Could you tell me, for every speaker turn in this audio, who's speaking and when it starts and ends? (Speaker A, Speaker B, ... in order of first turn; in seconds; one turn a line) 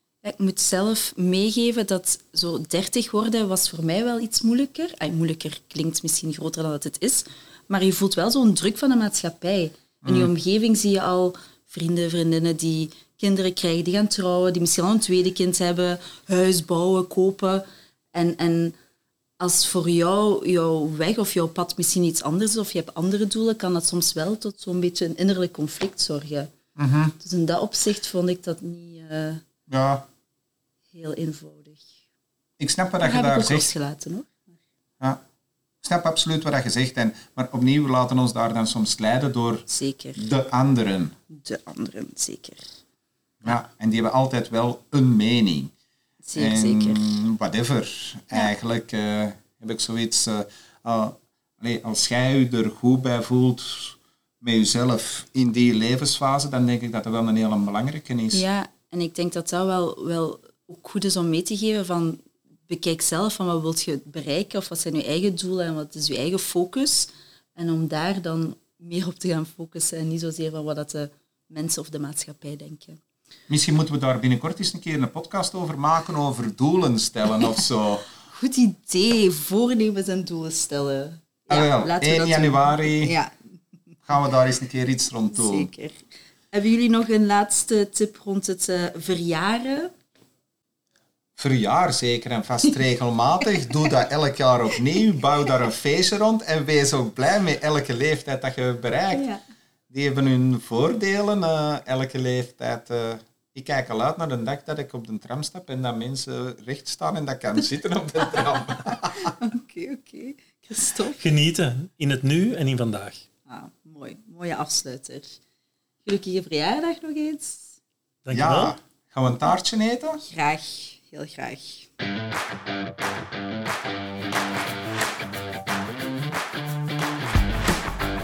Speaker A: 0.2-18.8
Speaker B: 10.0-10.3
Speaker A: 19.4-26.5
Speaker B: 26.8-27.1
Speaker A: 27.2-29.4
Speaker B: 29.7-30.0
Speaker A: 30.9-31.8
Speaker B: 32.6-33.7
Speaker A: 33.0-34.4
Speaker B: 35.8-41.1
Speaker A: 39.7-40.2
Speaker A: 41.3-42.6
Speaker B: 43.4-45.7
Speaker A: 46.2-47.1
Speaker B: 46.4-58.4
Speaker A: 58.3-73.0
Speaker B: 73.5-78.0
Speaker A: 78.3-83.3
Speaker B: 81.5-83.1
Speaker B: 84.1-85.7
Speaker A: 85.3-86.0
Speaker A: 86.5-89.9
Speaker B: 91.4-99.2
Speaker A: 99.0-99.4
Speaker B: 99.9-109.3
Speaker A: 109.3-111.2
Speaker C: 111.2-113.2
Speaker A: 113.5-115.4
Speaker A: 116.0-117.8
Speaker C: 118.2-118.7
Speaker B: 118.3-120.2
Speaker A: 120.2-121.9